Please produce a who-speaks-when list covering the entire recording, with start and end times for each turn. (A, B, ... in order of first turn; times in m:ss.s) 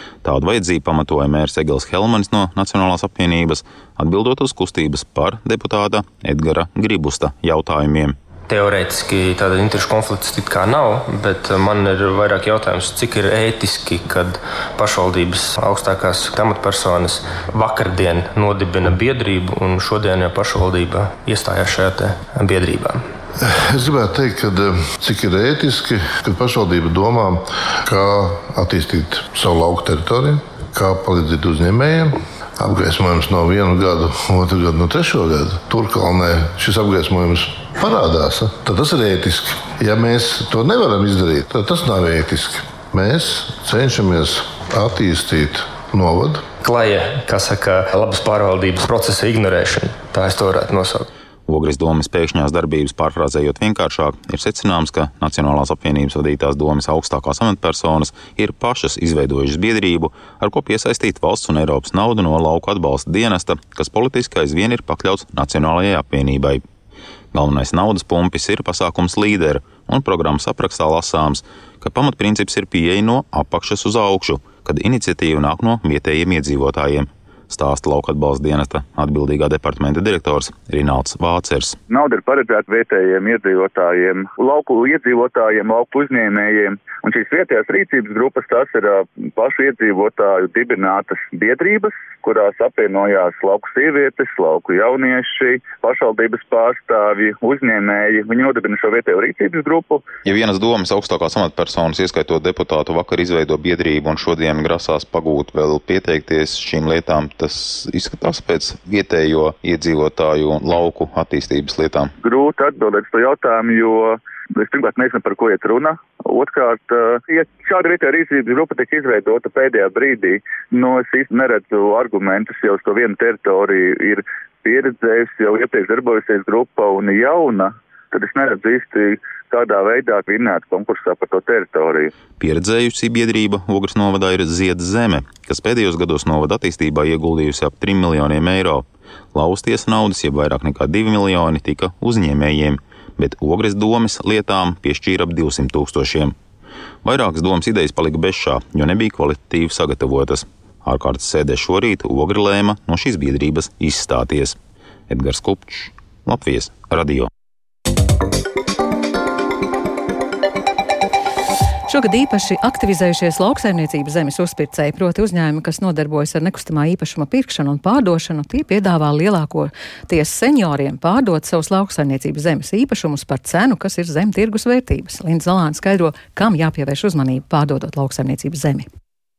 0:00.2-0:08.2 A
0:08.5-0:23.0 B
0:23.4-0:46.4 C
0:46.6-0:51.1 B
0:51.5-1:06.6 A
1:07.3-1:21.8 A
1:21.9-1:40.1 D
1:40.2-1:52.1 A
1:52.2-2:12.1 D
2:12.4-2:26.3 A
2:27.0-2:34.6 A
2:35.1-2:37.3 A
2:41.9-2:58.9 E